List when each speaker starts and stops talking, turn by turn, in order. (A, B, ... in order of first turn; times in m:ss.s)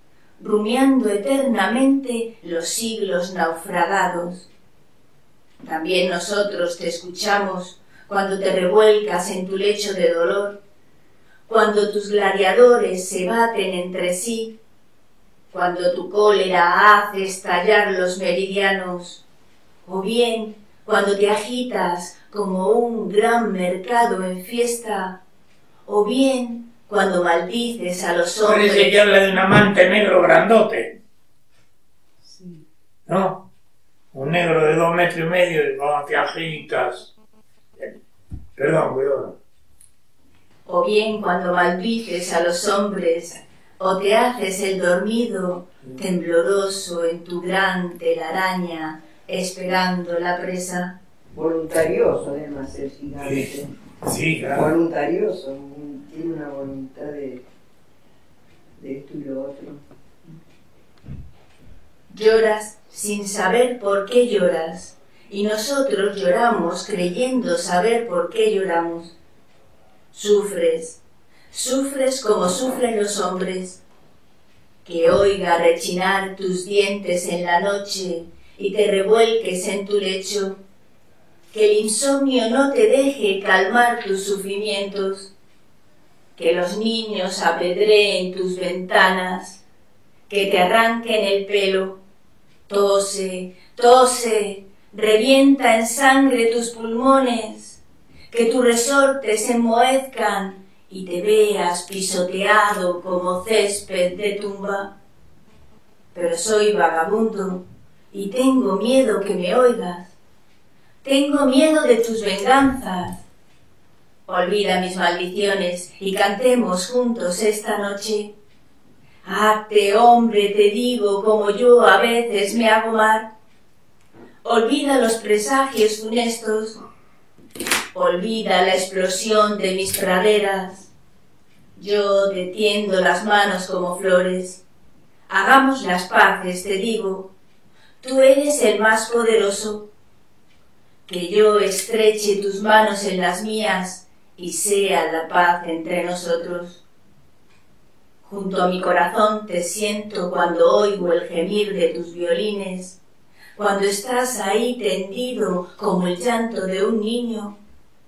0:00.4-0:04.5 A
0:05.6-0:10.6 A
0:11.5-0:14.6 A
0:15.5-0:19.2 A
0:19.8-0:25.2 A
0:25.9-0:29.0 A
0:28.5-0:30.9 B
0:33.1-0:33.4 B
0:34.1-0:37.1 B
0:38.6-0:39.4 B
0:40.7-0:51.0 A
0:51.3-0:53.7 C
0:53.2-0:53.5 B
0:54.0-0:54.7 B
0:54.4-0:57.4 C
0:58.8-0:59.8 C
1:02.1-1:09.2 A
1:10.1-1:11.0 A
1:11.5-1:13.8 A
1:14.8-1:20.6 A
1:21.5-1:25.3 A
1:26.4-1:29.6 A
1:30.3-1:32.0 A
1:32.7-1:37.8 A
1:38.3-1:44.9 A
1:46.2-1:50.1 A
1:51.0-1:53.2 A
1:54.3-1:58.3 A
1:59.2-2:03.3 A
2:04.4-2:06.8 A
2:07.9-2:10.9 A
2:11.8-2:14.6 A
2:15.3-2:17.3 A
2:18.0-2:19.9 A
2:21.1-2:26.8 A
2:28.2-2:33.0 A
2:33.6-2:37.6 A